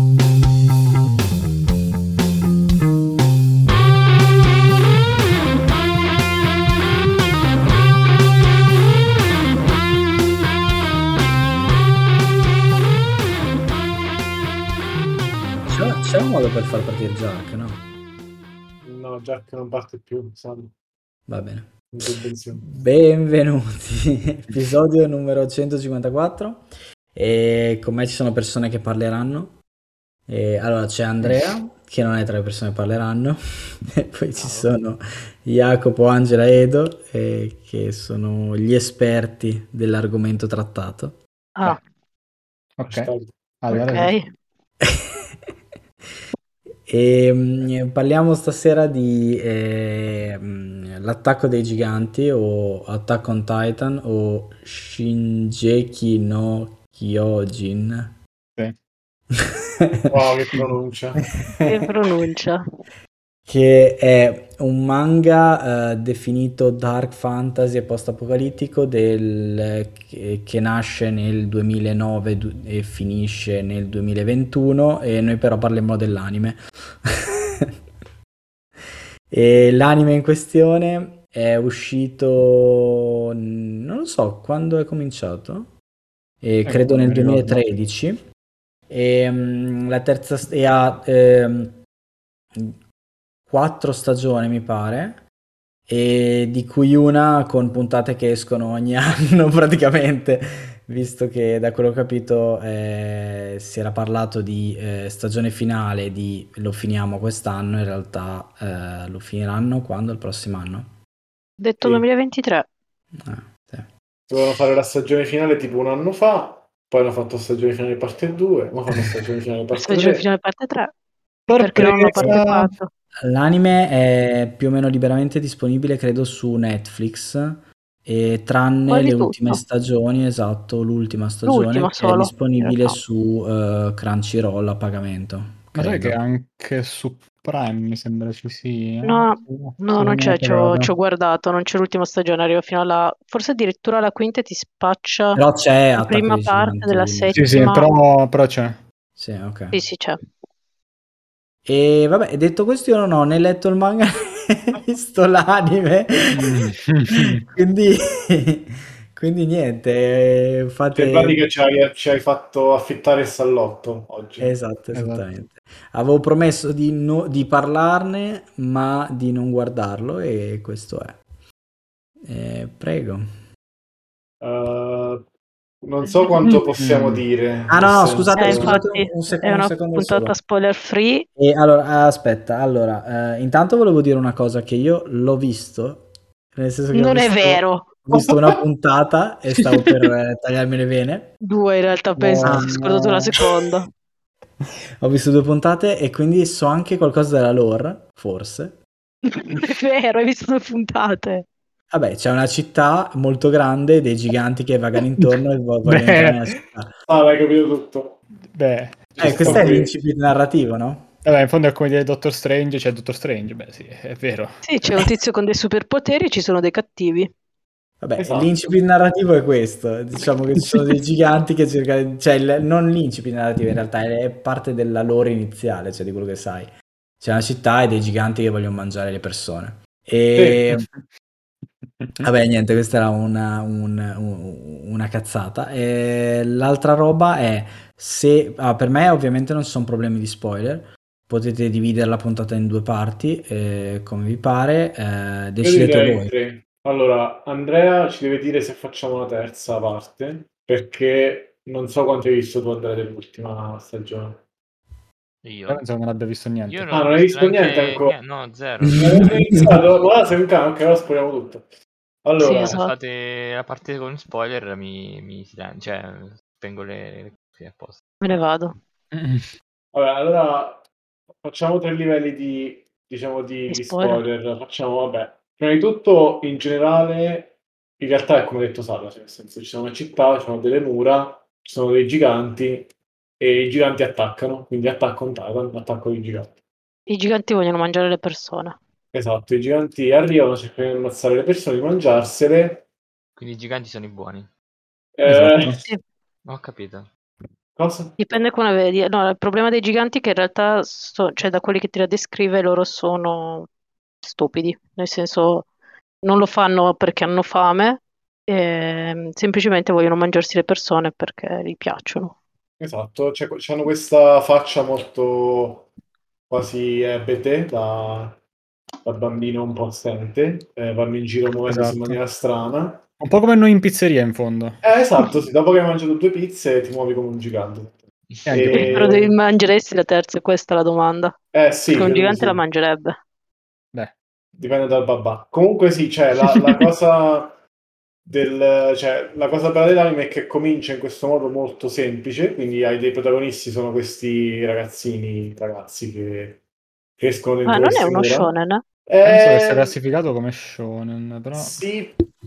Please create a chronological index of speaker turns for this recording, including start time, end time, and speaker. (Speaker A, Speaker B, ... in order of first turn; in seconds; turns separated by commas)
Speaker A: 15.6-17.8, Speaker B: 18.8-20.7, Speaker A: 21.3-29.6, Speaker B: 21.9-22.7, Speaker A: 30.3-33.4, Speaker A: 34.0-41.2, Speaker C: 34.4-34.7, Speaker C: 42.8-44.1, Speaker B: 42.9-43.4, Speaker D: 43.7-44.3, Speaker A: 46.9-58.1, Speaker B: 60.1-61.3, Speaker D: 61.7-62.6, Speaker A: 63.5-77.7, Speaker A: 79.3-85.7, Speaker A: 86.4-88.2, Speaker C: 86.7-87.6, Speaker A: 88.9-91.8, Speaker A: 93.5-95.2, Speaker A: 95.9-110.9, Speaker D: 111.6-112.7, Speaker A: 113.2-113.9, Speaker B: 114.3-120.3, Speaker D: 119.7-120.9, Speaker C: 121.5-122.7, Speaker D: 121.5-122.9, Speaker A: 123.2-136.2, Speaker D: 128.9-129.6, Speaker D: 131.4-133.0, Speaker C: 135.7-140.9, Speaker D: 139.0-145.4, Speaker A: 145.3-147.7, Speaker D: 146.0-147.9, Speaker C: 147.3-148.8, Speaker A: 149.2-149.8, Speaker D: 149.7-150.2, Speaker A: 151.7-156.6, Speaker C: 156.3-157.4, Speaker A: 157.2-161.4, Speaker B: 160.9-164.5, Speaker A: 164.4-171.2, Speaker C: 164.9-165.2, Speaker A: 172.2-173.3, Speaker B: 174.4-175.2, Speaker B: 175.8-178.8, Speaker C: 176.5-177.2, Speaker A: 177.7-180.3, Speaker D: 178.4-181.3, Speaker A: 181.4-191.3, Speaker D: 186.9-188.1, Speaker D: 191.4-193.9, Speaker C: 192.2-193.4, Speaker A: 192.4-192.8, Speaker A: 195.0-198.8, Speaker D: 199.3-201.5, Speaker A: 201.9-206.9, Speaker C: 205.2-206.6, Speaker B: 207.1-208.2, Speaker C: 208.5-209.7, Speaker B: 209.2-209.9, Speaker A: 209.2-211.1, Speaker C: 211.2-215.1, Speaker D: 214.6-217.3, Speaker A: 218.0-230.9, Speaker B: 218.2-218.8, Speaker B: 230.3-230.6, Speaker C: 230.7-231.1, Speaker C: 231.8-232.3, Speaker A: 232.2-246.3, Speaker B: 245.6-254.4, Speaker E: 255.4-255.8, Speaker C: 255.7-256.9, Speaker E: 256.7-259.8, Speaker B: 256.9-258.1, Speaker B: 259.0-261.7, Speaker A: 259.0-259.5, Speaker B: 262.2-262.9, Speaker D: 262.4-262.9, Speaker E: 262.8-268.0, Speaker D: 268.2-268.8, Speaker C: 269.1-269.5, Speaker B: 269.9-270.9, Speaker B: 271.4-286.6, Speaker D: 273.7-274.2, Speaker D: 287.1-288.8, Speaker B: 289.1-292.9, Speaker E: 293.4-294.5, Speaker B: 295.2-295.9, Speaker C: 295.3-295.8, Speaker D: 295.8-296.0, Speaker E: 296.4-297.1, Speaker B: 297.8-298.2, Speaker D: 298.2-303.7, Speaker D: 304.2-305.7, Speaker D: 306.2-312.4, Speaker B: 312.8-315.9, Speaker B: 316.5-318.4, Speaker B: 319.0-323.1, Speaker C: 321.6-322.2, Speaker C: 323.2-324.8, Speaker B: 324.8-329.3, Speaker C: 328.5-329.1, Speaker D: 328.7-331.4, Speaker B: 331.5-332.6, Speaker D: 331.9-333.2, Speaker B: 334.6-337.6, Speaker B: 338.3-346.6, Speaker B: 347.2-348.5, Speaker D: 347.6-348.8, Speaker B: 349.1-350.0, Speaker C: 349.2-351.8, Speaker B: 351.6-352.2